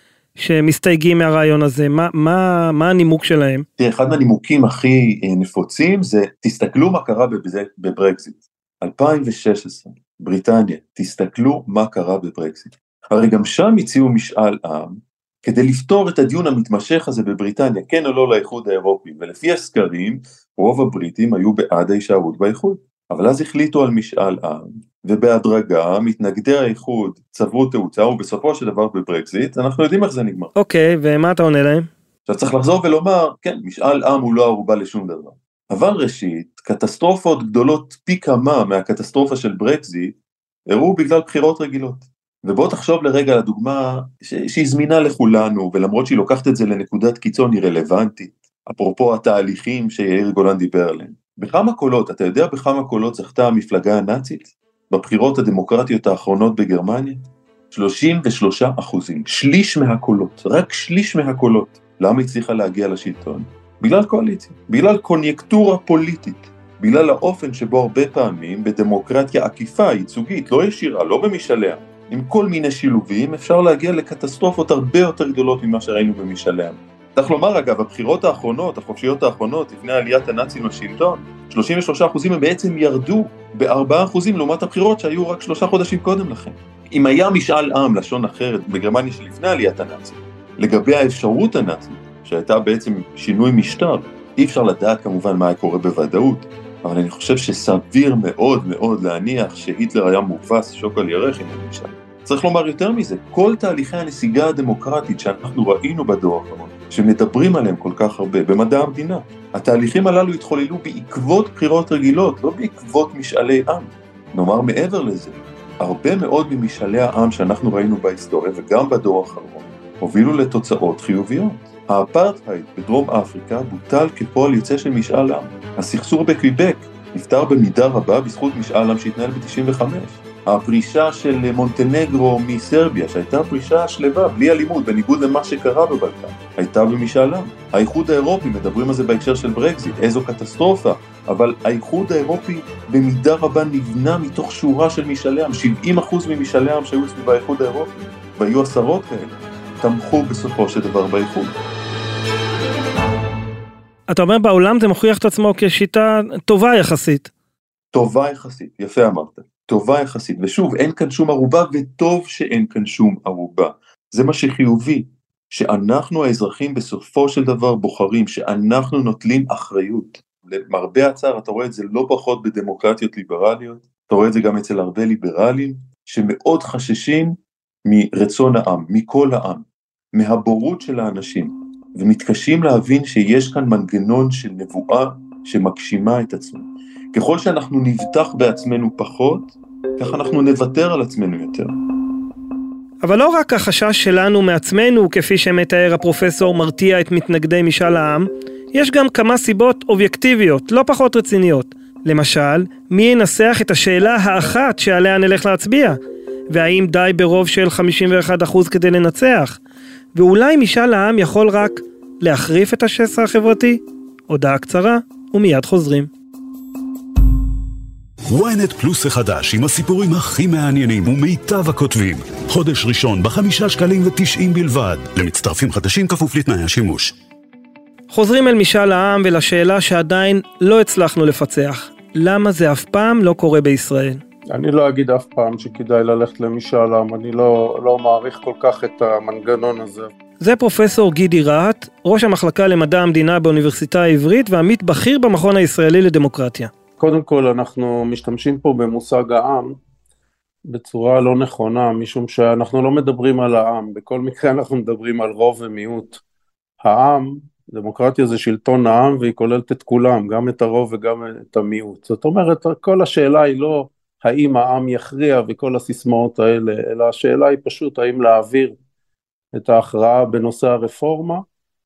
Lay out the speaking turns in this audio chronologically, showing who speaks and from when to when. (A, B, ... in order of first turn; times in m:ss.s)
0:00.4-0:03.6 A
0:03.8-0:30.5 B
0:30.6-0:31.9 A
0:32.3-0:40.1 B
0:40.7-2:31.6 B
2:34.1-2:37.3 A
2:37.9-3:11.7 B
3:13.0-3:26.0 A
3:26.5-3:29.6 A
3:30.1-3:36.1 A
3:38.3-3:47.1 C
3:48.1-3:54.2 A
3:54.5-4:00.1 D
4:00.4-4:06.7 A
4:07.0-4:09.8 D
4:10.6-4:16.2 D
4:16.8-4:28.8 D
4:29.5-4:31.4 D